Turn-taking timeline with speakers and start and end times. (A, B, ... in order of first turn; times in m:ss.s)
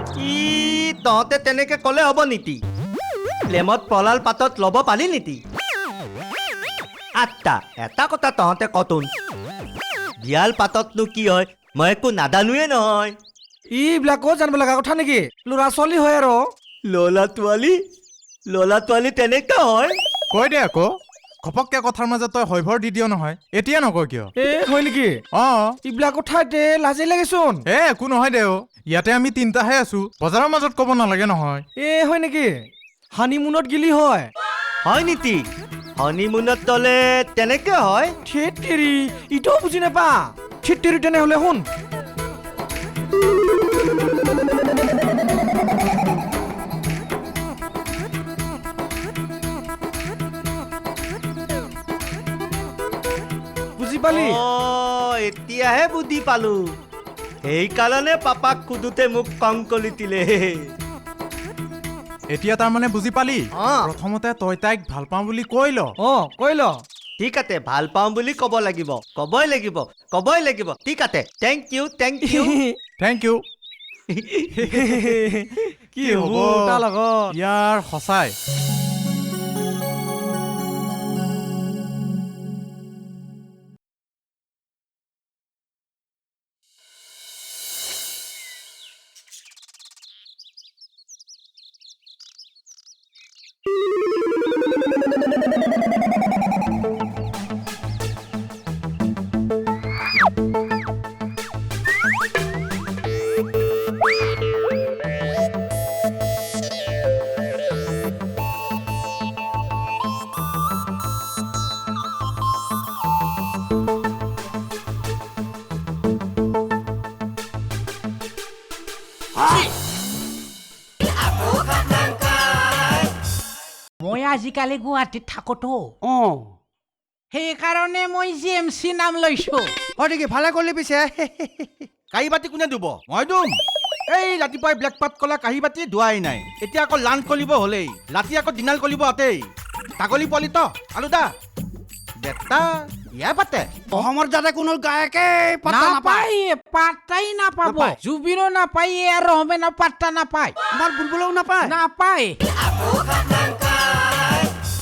0:00.2-0:02.6 A
0:03.5-0:05.4 A
0:07.2-0:09.1 A
0:10.2-0:13.1 A
0:13.7-0:16.4 B
0:16.9-0:17.8 A
0:18.5-0:20.0 A
0:20.3-0:24.3 C
0:24.4-0:25.2 B
0:25.3-0:25.8 C
0:25.8-0:27.6 B
0:27.7-0:31.6 C
0:31.8-0:32.5 B
0:33.1-0:34.3 B
0:34.8-0:35.4 A
0:36.0-0:38.1 A
0:38.3-0:41.6 B
0:53.8-0:54.4 B
0:54.1-0:56.6 A
0:57.4-1:00.7 A
1:02.3-1:05.9 C
1:03.6-1:03.9 A
1:06.0-1:06.7 B
1:07.2-1:12.6 A
1:13.0-1:13.4 C
1:14.2-1:15.0 A
1:14.6-1:15.3 B
1:16.0-1:17.3 B
1:16.0-1:18.4 C
1:59.4-1:59.7 D
2:04.0-2:05.9 E
2:06.0-2:06.6 D
2:07.3-2:09.7 E
2:10.0-2:11.9 D
2:12.1-2:13.6 F
2:14.1-2:19.4 F
2:20.0-2:21.3 F
2:22.2-2:23.8 F
2:23.9-2:26.3 D
2:25.7-2:30.6 E
2:27.6-2:28.0 D
2:30.7-2:31.8 D
2:31.6-2:32.4 E